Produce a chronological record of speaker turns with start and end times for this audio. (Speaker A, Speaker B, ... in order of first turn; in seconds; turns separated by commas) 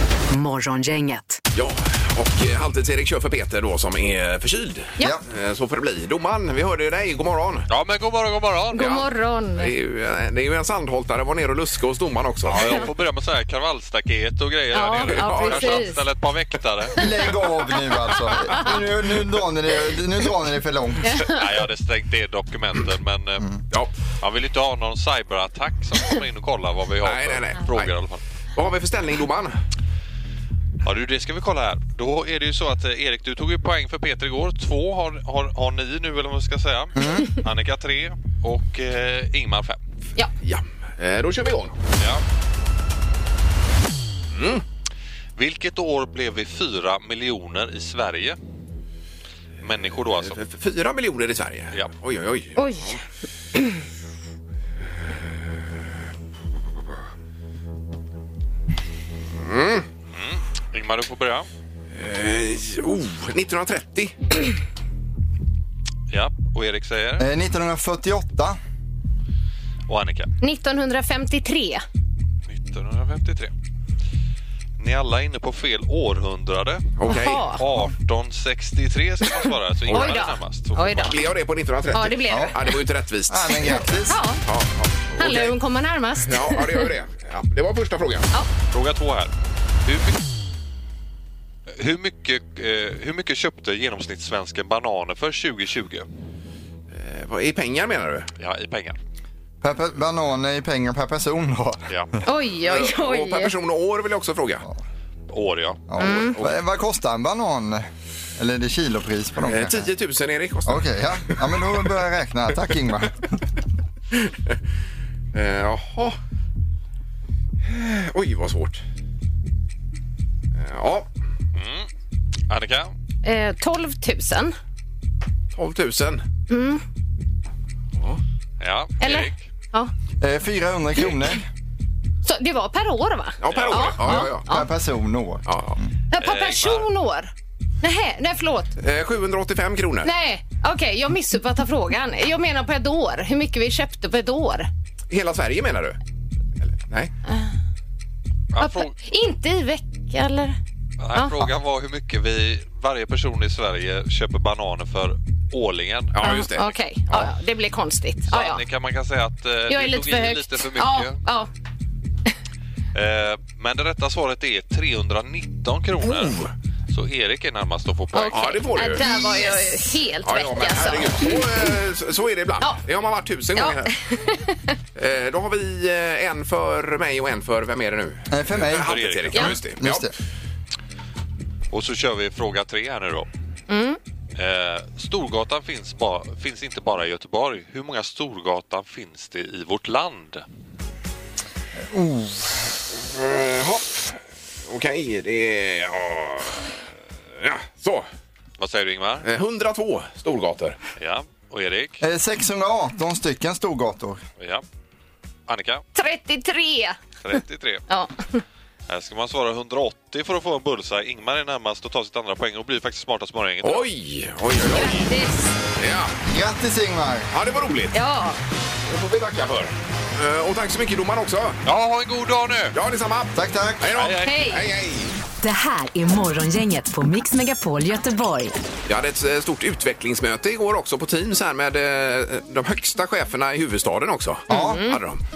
Speaker A: 0.3-1.4, Speaker B: 1.5-7.7, Speaker C: 7.7-8.9, Speaker D: 8.7-9.7, Speaker B: 8.8-9.1, Speaker B: 9.6-12.8, Speaker C: 12.5-17.0, Speaker D: 12.5-12.9, Speaker D: 14.7-16.0, Speaker B: 15.1-15.9, Speaker E: 17.0-21.2, Speaker D: 21.0-21.4, Speaker C: 21.3-23.5, Speaker C: 24.2-28.2, Speaker B: 27.0-27.9, Speaker B: 28.6-29.6, Speaker C: 30.8-39.8, Speaker E: 37.0-37.3, Speaker B: 40.4-41.8, Speaker B: 44.3-44.6, Speaker C: 45.4-48.4, Speaker C: 49.6-50.4, Speaker B: 50.2-53.0, Speaker D: 52.6-53.0, Speaker B: 59.4-59.9, Speaker C: 60.1-61.5, Speaker B: 62.0-64.3, Speaker C: 66.1-67.2, Speaker E: 67.2-68.6, Speaker C: 69.9-70.3, Speaker D: 70.4-71.8, Speaker C: 72.5-73.5, Speaker C: 74.8-81.1, Speaker B: 77.0-77.4, Speaker D: 77.1-77.6, Speaker D: 79.5-81.2, Speaker B: 81.0-83.8, Speaker D: 81.9-82.8, Speaker E: 83.3-84.2, Speaker D: 83.7-84.4, Speaker B: 84.5-85.6, Speaker D: 85.2-86.9, Speaker B: 86.2-88.3, Speaker C: 88.7-89.3, Speaker C: 89.8-90.2, Speaker C: 91.8-96.1, Speaker B: 96.9-98.3, Speaker C: 98.4-99.0, Speaker E: 99.6-101.9, Speaker D: 102.2-103.5, Speaker B: 102.7-104.7, Speaker C: 105.3-105.8, Speaker E: 105.9-109.9, Speaker D: 106.0-106.4, Speaker B: 109.5-111.7, Speaker E: 110.7-113.2, Speaker B: 114.1-114.5, Speaker B: 115.3-116.2, Speaker B: 117.7-118.8, Speaker B: 120.6-121.1, Speaker C: 121.5-121.9, Speaker C: 122.5-122.9, Speaker D: 123.2-124.5, Speaker B: 125.5-126.2, Speaker D: 126.5-126.8, Speaker C: 128.6-129.4, Speaker D: 129.0-129.9, Speaker E: 130.2-131.4, Speaker D: 132.2-134.7, Speaker B: 133.4-134.5, Speaker C: 133.5-133.9, Speaker E: 134.1-135.5, Speaker B: 135.5-135.8, Speaker D: 136.1-137.3, Speaker C: 136.2-136.9, Speaker D: 137.8-138.7, Speaker B: 138.8-140.1, Speaker D: 140.0-144.7, Speaker B: 145.1-146.0, Speaker B: 146.6-147.1, Speaker C: 148.5-148.9, Speaker D: 148.6-150.6, Speaker C: 151.0-156.2, Speaker D: 151.1-151.4, Speaker B: 156.1-157.3, Speaker D: 156.2-158.6, Speaker C: 158.3-161.2, Speaker D: 159.7-161.5, Speaker C: 162.9-168.9, Speaker B: 166.1-166.5, Speaker D: 168.1-171.3, Speaker B: 168.3-169.6, Speaker B: 170.2-173.9, Speaker D: 173.6-174.7, Speaker B: 174.9-180.1, Speaker E: 178.3-180.1, Speaker C: 178.8-179.6, Speaker C: 181.7-183.3, Speaker D: 183.7-184.0, Speaker C: 184.4-190.4, Speaker E: 191.9-192.6, Speaker B: 192.9-196.8, Speaker B: 197.4-198.1, Speaker C: 198.6-199.3, Speaker B: 199.2-200.8, Speaker C: 201.0-202.0, Speaker E: 202.0-204.2, Speaker C: 204.4-204.6, Speaker C: 205.5-205.8, Speaker D: 205.9-207.0, Speaker C: 207.2-207.8, Speaker D: 207.9-208.4, Speaker C: 208.9-213.9, Speaker B: 213.6-215.1, Speaker D: 214.7-215.5, Speaker B: 215.8-216.2, Speaker E: 216.3-217.3, Speaker B: 217.3-218.0, Speaker D: 217.9-218.4, Speaker B: 218.9-221.6, Speaker C: 221.7-222.8, Speaker B: 222.8-225.1, Speaker E: 223.3-223.8, Speaker C: 223.9-224.4, Speaker D: 224.2-224.6, Speaker A: 225.4-228.6, Speaker B: 228.9-235.2, Speaker E: 234.5-234.9, Speaker D: 234.5-235.0